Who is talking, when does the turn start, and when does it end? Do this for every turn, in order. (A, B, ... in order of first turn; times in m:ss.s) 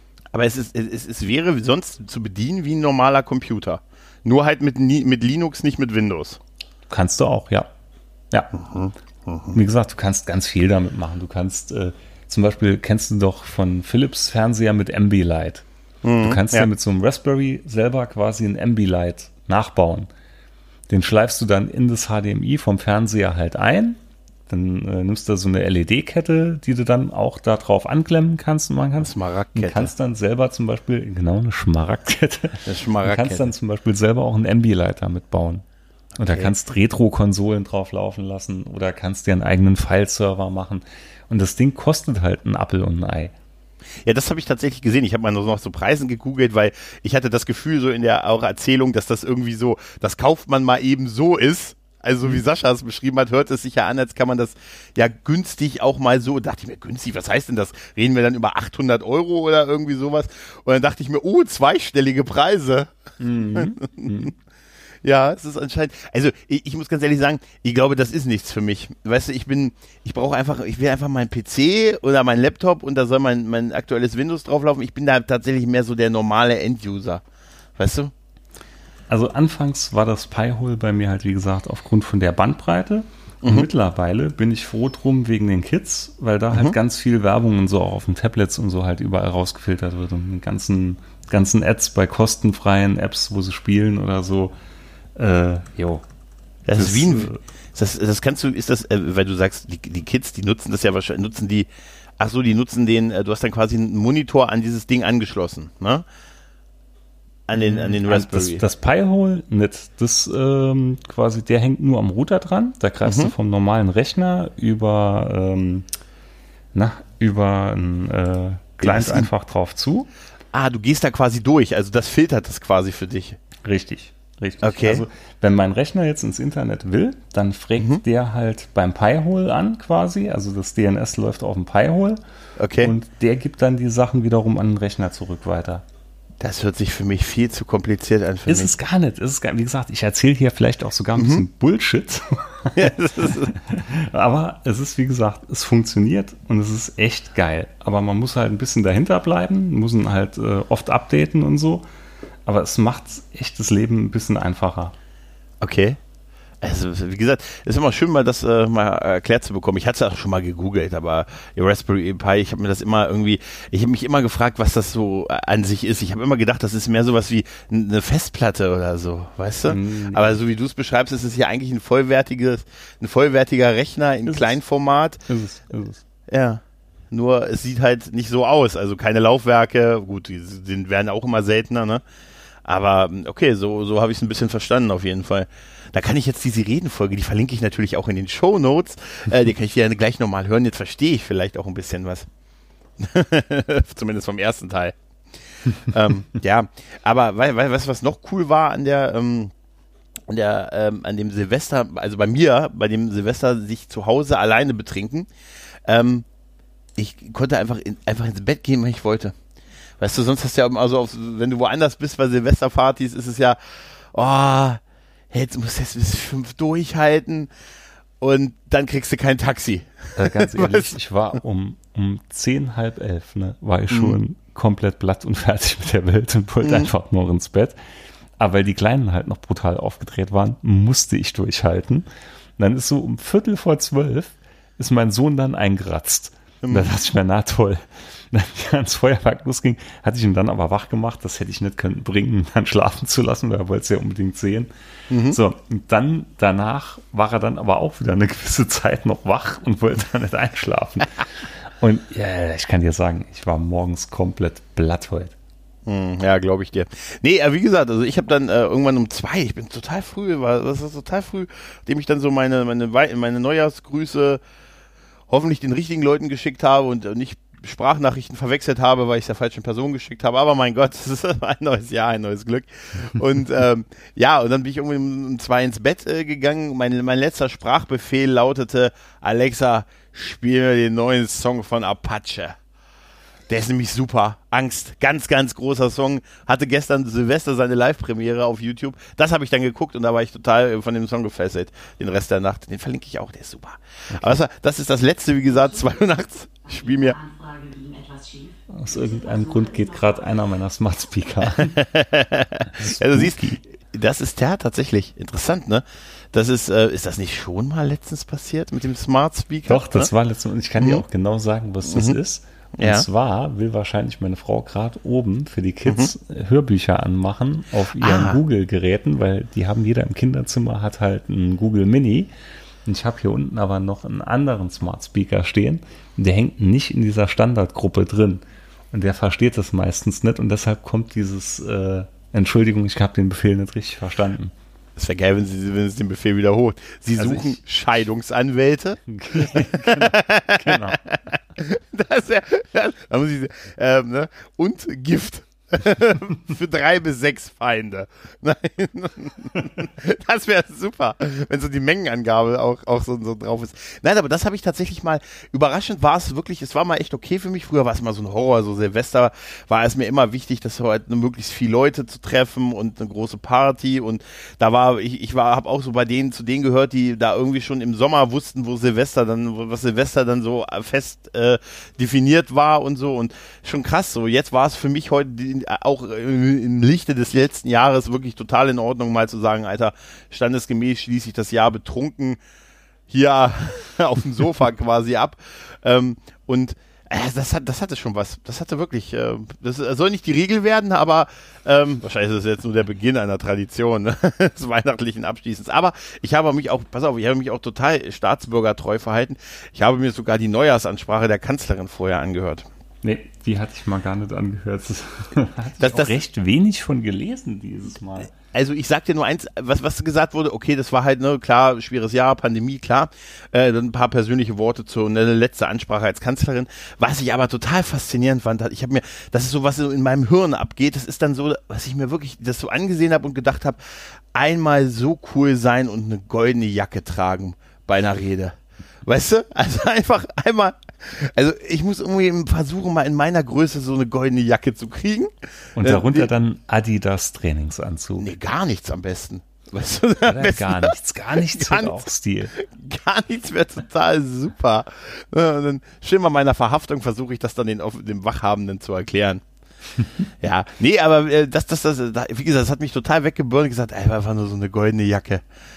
0:00.3-0:06.4 A
0:06.9-0:07.7 B
0:08.5-0:09.6 A
0:09.5-0:15.6 B
0:16.0-0:16.7 A
0:16.2-0:20.1 B
0:20.9-0:35.6 B
0:29.0-0:29.9 A
0:32.6-0:33.5 A
0:36.2-0:43.3 B
0:36.2-0:36.5 A
0:44.1-1:02.9 A
1:03.2-1:04.3 B
1:03.5-1:04.3 A
1:05.0-1:17.2 A
1:17.8-1:18.1 A
1:19.1-1:34.6 B
1:23.4-1:23.7 A
1:26.5-1:26.8 A
1:35.2-1:36.0 B
1:36.7-1:41.7 A
1:36.7-1:37.4 B
1:42.2-1:46.0 A
1:47.5-1:48.6 A
1:47.6-1:55.9 B
1:53.0-1:53.3 A
1:56.7-2:00.1 B
1:58.8-1:59.3 A
2:00.5-2:03.4 A
2:03.6-2:12.2 B
2:04.6-2:05.0 A
2:07.8-2:08.0 A
2:12.6-2:12.9 A
2:12.8-2:15.8 B
2:16.4-2:18.7 A
2:18.5-2:31.9 B
2:21.2-2:21.4 A
2:22.8-2:23.5 A
2:32.4-2:34.9 B
2:35.6-2:36.0 A
2:36.6-2:55.2 A
2:49.7-2:50.4 B
2:54.3-2:54.6 B
2:55.3-2:56.0 B
2:56.3-3:02.0 A
3:02.6-3:12.3 A
3:13.0-3:15.0 A
3:15.8-3:19.5 A
3:20.3-3:25.3 A
3:25.9-3:26.3 A
3:27.0-3:29.4 A
3:30.0-3:33.6 A
3:34.1-3:37.5 A
3:38.2-3:40.9 A
3:40.2-3:47.8 B
3:43.9-3:44.2 A
3:46.6-3:46.9 A
3:48.4-3:52.1 B
3:52.6-4:04.7 B
3:56.6-3:56.9 A
4:05.1-4:05.4 A
4:05.3-4:15.3 B
4:15.9-4:24.4 A
4:25.3-4:42.6 A
4:43.5-4:57.2 A
4:54.1-4:54.4 B
4:56.8-5:00.0 C
4:58.7-5:01.8 B
5:01.4-5:10.1 A
5:02.7-5:03.6 B
5:09.7-5:22.3 B
5:10.8-5:11.0 A
5:11.9-5:12.2 A
5:12.8-5:13.1 A
5:15.9-5:16.1 A
5:18.0-5:18.4 A
5:22.8-5:34.5 B
5:35.0-6:22.4 A
5:37.2-5:37.6 B
5:39.1-5:41.0 B
6:23.1-6:42.7 A
6:43.0-6:48.3 B
6:45.8-6:46.2 A
6:48.3-7:03.8 A
7:04.3-7:15.3 A
7:15.8-7:18.3 B
7:15.8-7:16.3 A
7:18.2-7:22.0 A
7:20.3-7:22.5 B
7:22.5-7:29.4 A
7:30.4-7:35.4 A